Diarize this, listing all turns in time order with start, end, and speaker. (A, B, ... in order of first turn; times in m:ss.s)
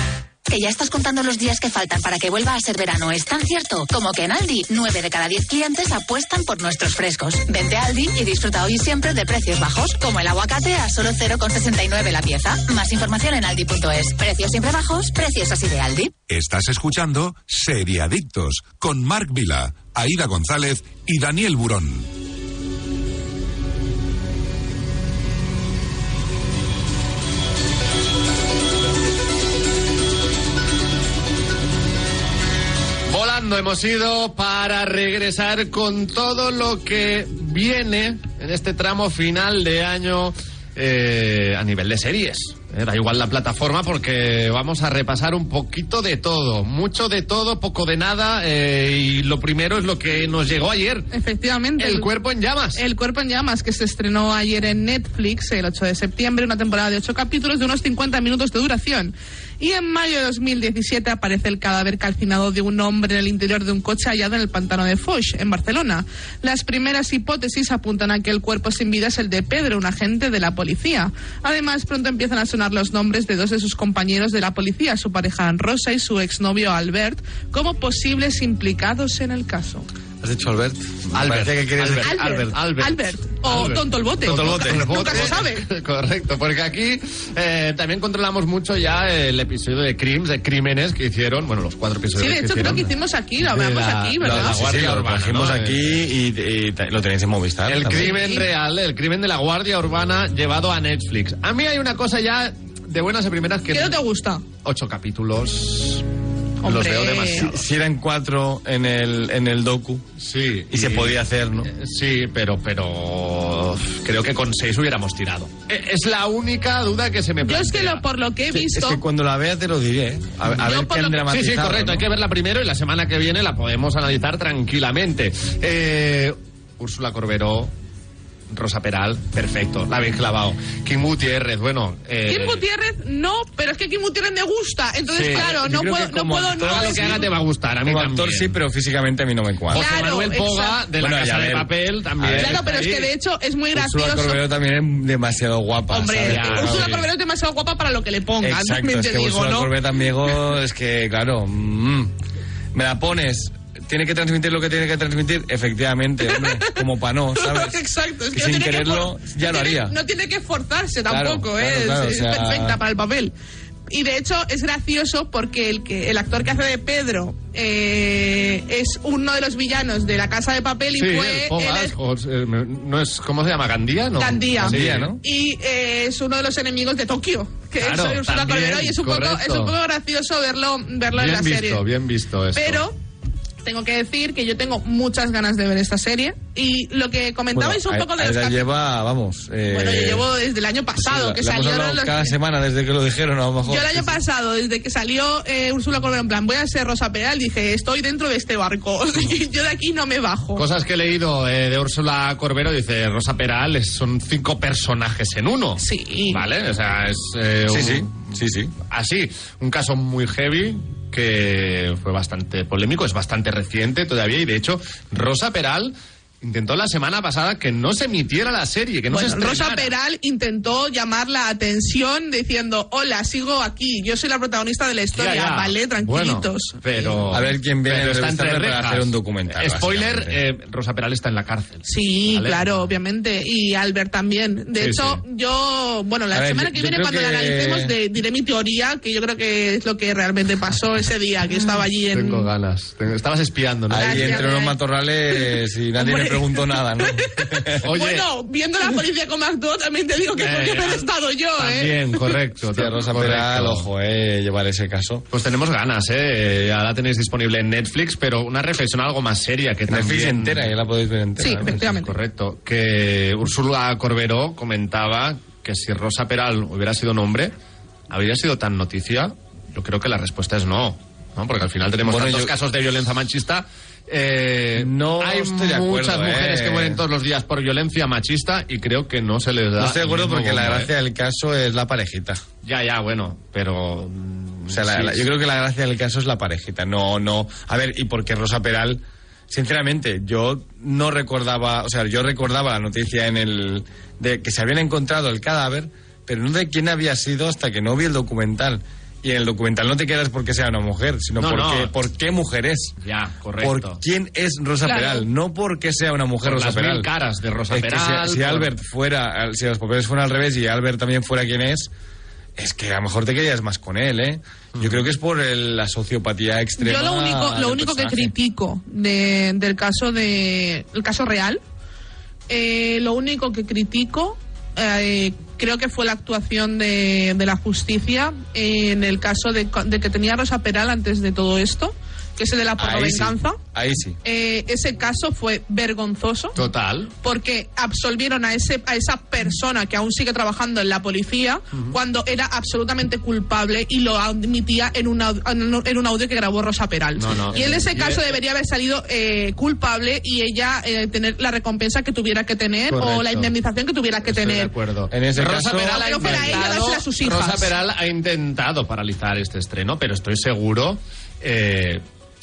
0:00.5-0:16.2 A
0:16.3-0:22.1 B
0:33.1-0:51.1 C
0:51.1-0:52.1 D
0:51.8-0:52.8 C
0:52.8-1:19.9 D
1:20.2-1:22.4 E
1:21.1-1:35.8 C
1:22.0-1:25.7 D
1:24.2-1:25.4 E
1:32.2-1:34.6 D
1:34.2-1:38.2 E
1:37.7-1:44.0 C
1:38.0-1:38.4 D
1:43.7-1:44.4 D
1:44.6-1:46.1 C
1:46.6-1:47.5 D
1:46.6-1:47.6 C
1:47.4-1:50.1 E
1:50.2-1:58.0 C
1:50.7-1:51.7 E
1:57.4-1:59.0 D
1:58.5-2:02.1 E
2:00.6-2:01.2 D
2:01.3-2:07.7 C
2:08.5-2:12.6 C
2:12.3-2:17.3 D
2:15.2-2:15.5 C
2:15.3-2:17.3 E
2:16.6-2:18.5 C
2:17.8-2:19.9 E
2:19.7-2:23.1 C
2:19.7-2:20.8 D
2:21.0-2:22.6 E
2:22.4-2:24.4 D
2:23.8-2:27.0 E
2:25.9-2:29.7 D
2:26.3-2:27.1 C
2:28.4-2:32.1 E
2:32.7-2:37.8 E
2:36.3-2:36.8 D
2:37.4-2:43.3 D
2:38.3-2:40.0 E
2:41.1-2:42.8 E
2:43.9-2:52.0 D
2:51.0-2:55.1 C
2:54.2-3:01.8 D
2:54.6-2:55.2 E
2:57.8-2:59.8 C
3:01.1-3:02.8 C
3:02.6-3:03.0 D
3:03.6-3:08.6 D
3:07.5-3:10.3 E
3:09.7-3:12.3 D
3:11.0-3:14.2 E
3:13.6-3:20.6 D
3:20.6-3:28.4 C
3:25.8-3:26.4 D
3:27.7-3:28.7 E
3:28.9-3:39.9 C
3:39.1-3:47.2 D
3:45.1-3:52.9 C
3:47.3-3:50.4 E
3:51.8-4:02.5 D
3:54.8-3:55.2 C
3:56.3-3:58.0 E
4:02.1-4:04.4 C
4:03.9-4:07.8 E
4:04.0-4:04.8 D
4:05.3-4:12.3 D
4:07.8-4:08.3 C
4:10.4-4:11.1 C
4:11.6-4:13.9 C
4:12.7-4:15.3 E
4:15.3-4:20.7 C
4:19.9-4:21.9 E
4:21.4-4:22.1 D
4:21.9-4:27.5 C
4:28.1-4:40.9 C
4:32.0-4:32.5 E
4:34.8-4:37.0 E
4:39.8-4:42.4 E
4:42.6-4:45.3 C
4:44.7-5:03.0 E
5:01.4-5:01.9 C
5:03.0-5:04.0 C
5:03.6-5:07.1 E
5:04.8-5:05.3 D
5:06.4-5:08.7 C
5:07.7-5:11.9 E
5:12.6-5:18.3 E
5:14.8-5:15.0 C
5:16.8-5:21.6 D
5:22.5-5:33.6 D
5:32.8-5:34.2 E
5:34.2-5:36.6 D
5:36.6-5:37.1 C
5:37.2-5:54.7 D
5:47.2-5:48.4 C
5:52.9-5:53.5 C
5:54.2-6:02.0 C
5:55.1-5:56.6 E
5:55.9-5:57.7 D